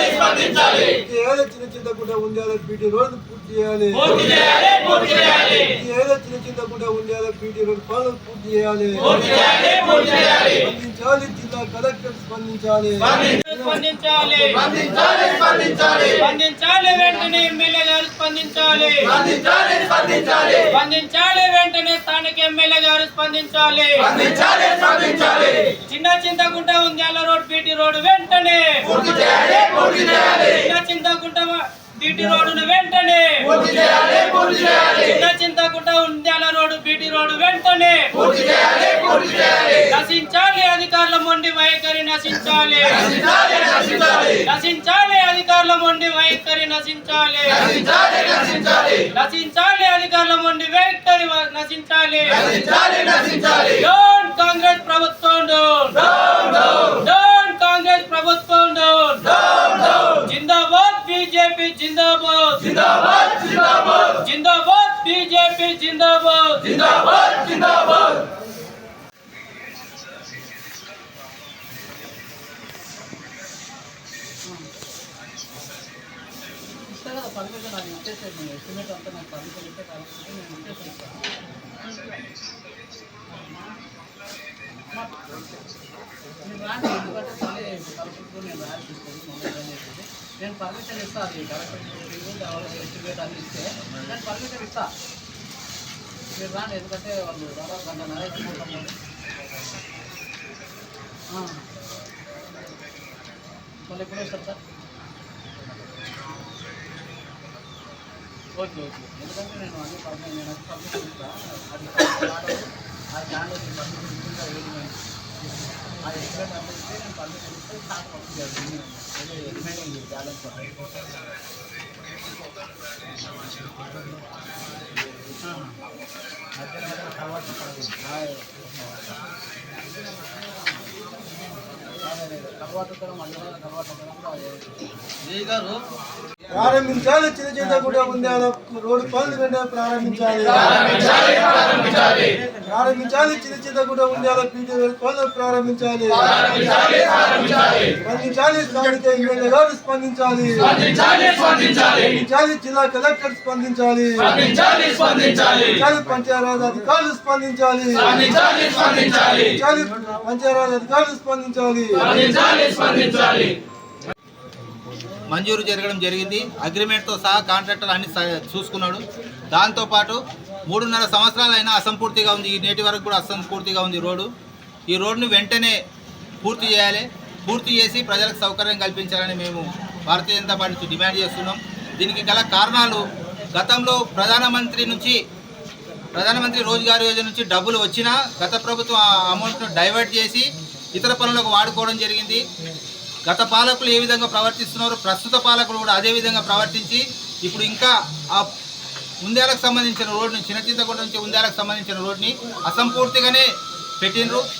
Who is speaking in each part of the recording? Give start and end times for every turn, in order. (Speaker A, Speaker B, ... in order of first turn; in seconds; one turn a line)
Speaker A: 0.5-4.4
Speaker B: 4.3-5.2
Speaker A: 5.1-9.5
Speaker B: 9.3-10.5
Speaker A: 10.5-13.8
Speaker B: 13.2-67.9
Speaker C: 76.7-81.2
Speaker C: 86.4-94.9
Speaker C: 96.4-98.9
Speaker C: 101.3-101.7
Speaker C: 103.9-104.6
Speaker C: 108.6-115.0
Speaker C: 116.0-120.9
Speaker C: 125.5-125.8
Speaker C: 126.7-128.7
Speaker C: 131.8-135.8
Speaker A: 136.5-141.3
Speaker C: 141.3-142.6
Speaker A: 142.7-146.3
Speaker A: 148.0-151.0
Speaker A: 151.5-154.6
Speaker A: 155.5-162.6
Speaker B: 162.9-163.2
Speaker D: 165.3-174.3
Speaker D: 174.9-175.8
Speaker D: 176.4-183.0
Speaker D: 183.5-185.2
Speaker D: 186.1-192.4
Speaker D: 193.3-198.5
Speaker D: 199.2-203.4
Speaker D: 204.0-204.4